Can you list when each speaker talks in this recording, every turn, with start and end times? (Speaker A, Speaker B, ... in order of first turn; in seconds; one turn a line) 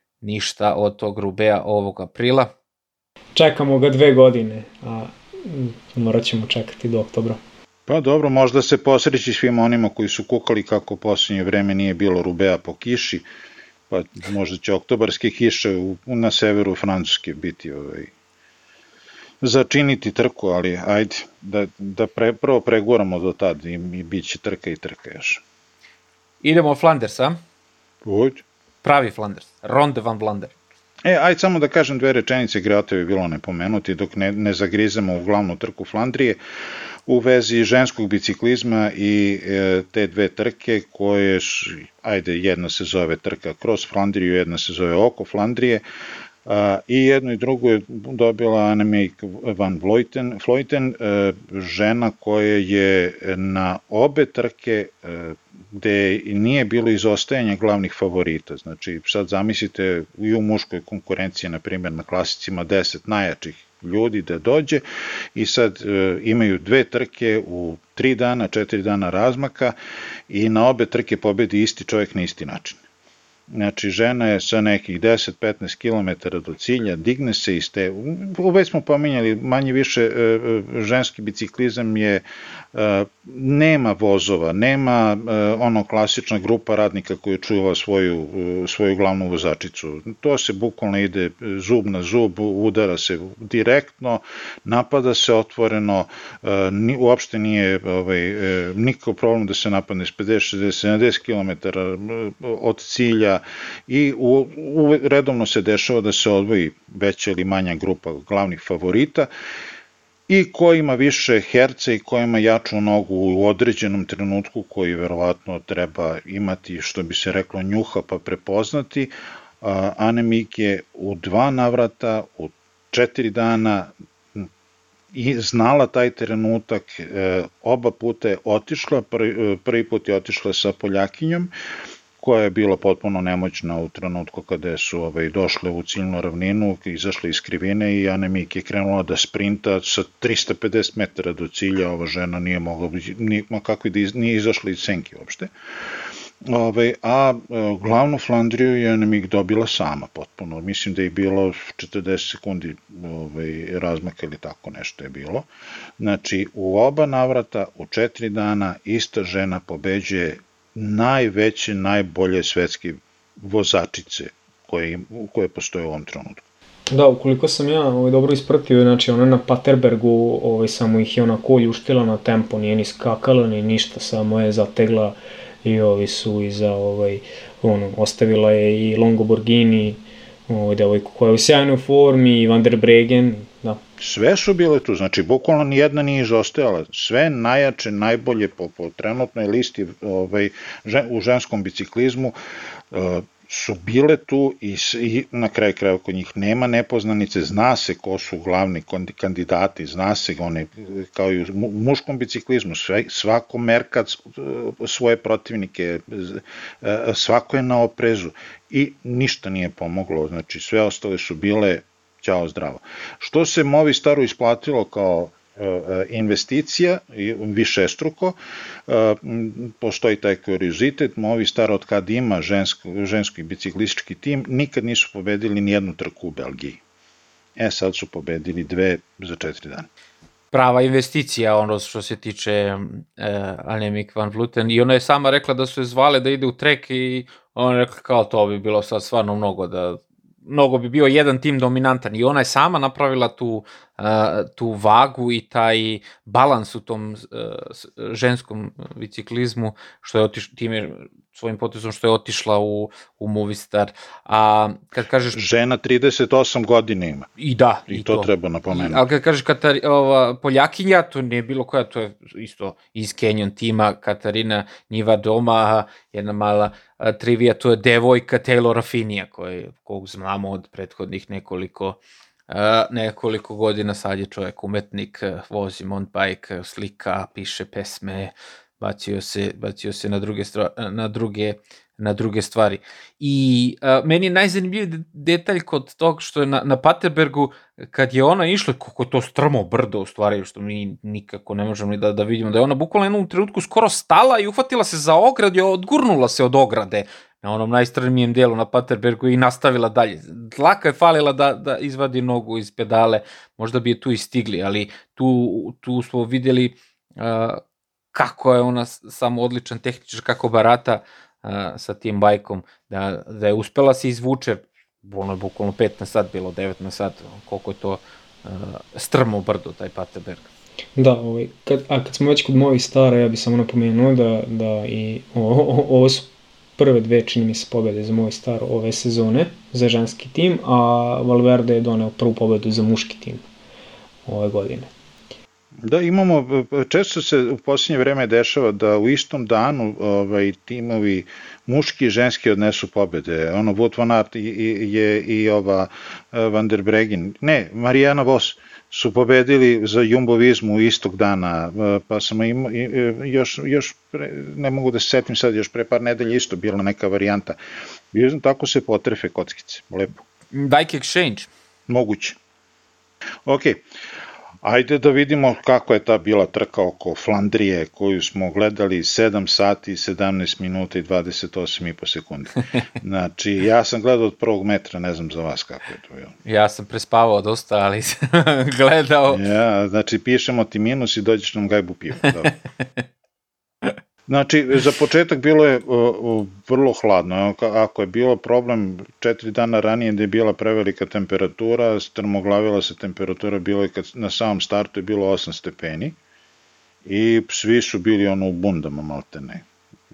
Speaker A: 0.2-2.5
Speaker B: 3.3-7.4
Speaker C: 7.9-13.2
Speaker C: 13.9-18.1
Speaker C: 19.4-25.4
Speaker A: 26.4-27.4
Speaker C: 28.0-28.4
Speaker A: 28.8-30.5
Speaker C: 31.0-36.4
Speaker C: 37.1-45.8
Speaker C: 46.5-64.8
Speaker C: 65.3-69.8
Speaker C: 70.3-72.8
Speaker C: 73.5-109.3
Speaker C: 110.3-124.5
Speaker C: 125.1-131.5
Speaker C: 132.2-145.5
Speaker C: 146.4-155.5
Speaker C: 156.0-166.4
Speaker B: 166.9-183.8
Speaker C: 184.0-192.3
Speaker C: 192.9-226.8
Speaker C: 227.6-229.9
Speaker A: 230.5-255.4
Speaker C: 255.3-257.3
Speaker A: 257.4-272.0
Speaker C: 257.9-259.0
Speaker A: 272.5-307.6
Speaker A: 308.1-320.5
Speaker B: 320.9-333.4
Speaker B: 334.2-334.9
Speaker C: 335.8-357.6
Speaker C: 358.1-360.2
Speaker A: 360.5-361.5
Speaker C: 361.9-362.4
Speaker C: 363.4-363.8
Speaker C: 364.6-376.3
Speaker A: 376.4-379.4
Speaker C: 379.3-382.6
Speaker C: 384.3-396.2
Speaker C: 397.0-399.6